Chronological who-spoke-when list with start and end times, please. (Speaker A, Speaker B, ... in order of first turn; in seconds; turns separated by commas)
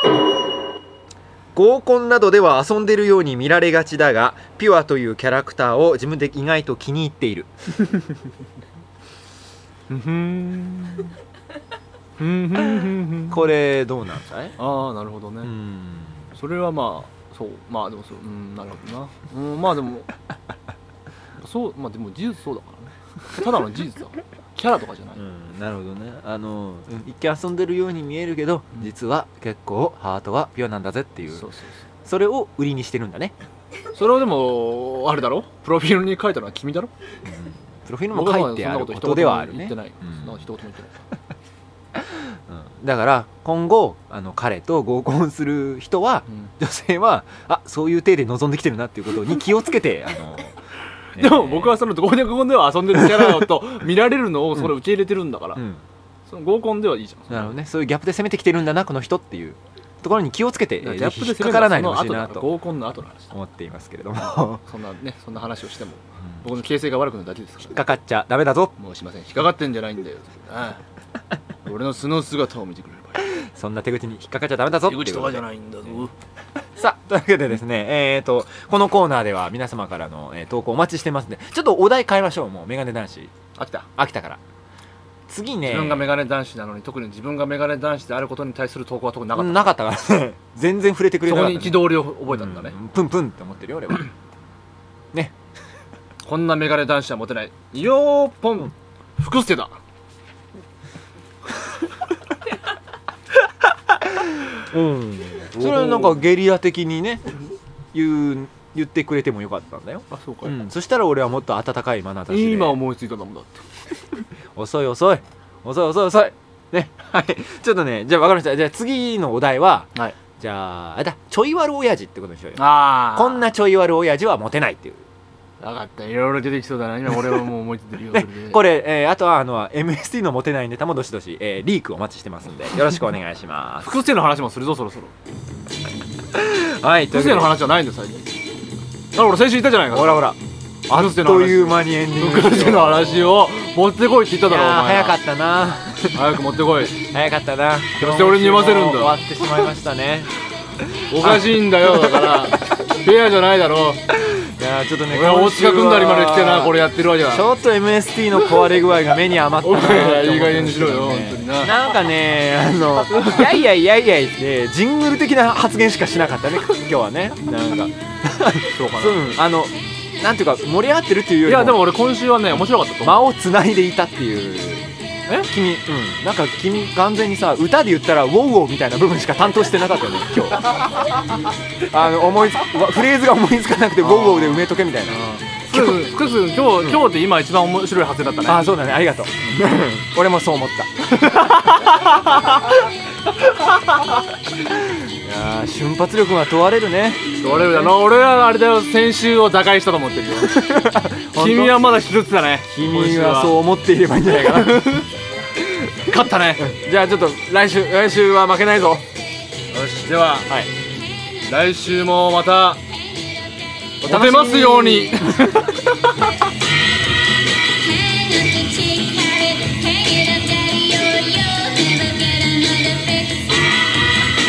Speaker A: 1.5-7.5, Speaker B: 9.9-11.1, Speaker B: 12.2-13.4, Speaker A: 13.3-14.6, Speaker B: 14.6-15.5, Speaker A: 15.4-16.3, Speaker B: 16.3-20.1, Speaker B: 21.4-25.2, Speaker A: 25.1-31.5, Speaker B: 31.3-31.8, Speaker A: 32.0-33.3, Speaker B: 33.9-36.9, Speaker A: 37.2-40.4, Speaker B: 38.1-41.1, Speaker A: 41.9-50.6, Speaker B: 51.1-55.6, Speaker A: 51.1-51.8, Speaker A: 53.0-53.5, Speaker A: 55.5-55.8, Speaker B: 56.3-57.5, Speaker A: 57.3-62.5, Speaker B: 60.8-63.3, Speaker A: 63.3-64.6, Speaker B: 64.6-67.8, Speaker A: 67.7-68.7, Speaker B: 68.8-70.8, Speaker B: 71.6-73.3, Speaker A: 73.3-76.0, Speaker B: 74.8-76.1, Speaker A: 76.8-83.3, Speaker B: 83.5-83.9, Speaker A: 84.0-84.4, Speaker A: 85.3-86.1, Speaker B: 85.7-89.7, Speaker A: 89.3-94.1, Speaker B: 91.2-92.8, Speaker B: 96.2-99.8, Speaker A: 104.1-107.4, Speaker B: 105.5-106.2, Speaker A: 107.9-112.8, Speaker B: 110.1-110.5, Speaker B: 112.3-113.6, Speaker A: 114.5-125.1, Speaker B: 122.5-123.5, Speaker B: 125.6-128.6, Speaker A: 128.1-134.0, Speaker B: 133.8-135.1, Speaker A: 136.3-137.6, Speaker B: 137.1-138.4, Speaker B: 139.1-140.3, Speaker A: 139.9-143.5, Speaker B: 140.9-145.2, Speaker A: 144.4-146.2, Speaker B: 146.1-147.0, Speaker A: 147.0-150.3, Speaker B: 148.0-149.2, Speaker B: 151.1-154.0, Speaker A: 151.2-152.3, Speaker A: 154.1-171.8, Speaker B: 155.1-157.5, Speaker B: 159.6-161.8, Speaker B: 163.1-163.6, Speaker B: 168.7-169.3, Speaker B: 171.4-173.2, Speaker A: 173.0-174.9, Speaker A: 175.5-186.1, Speaker B: 184.0-188.7, Speaker A: 186.8-187.1, Speaker A: 188.4-192.9, Speaker B: 191.2-191.7, Speaker B: 193.6-194.1, Speaker A: 194.6-198.0, Speaker B: 197.4-200.6, Speaker A: 200.4-201.9, Speaker B: 201.3-203.6, Speaker A: 202.7-205.1, Speaker B: 204.3-205.0, Speaker A: 205.6-209.0, Speaker B: 206.0-206.7, Speaker B: 209.7-210.6, Speaker A: 210.5-210.7, Speaker B: 211.4-212.8, Speaker C: 213.0-213.8, Speaker B: 214.0-215.7, Speaker A: 214.0-215.8, Speaker C: 217.2-224.2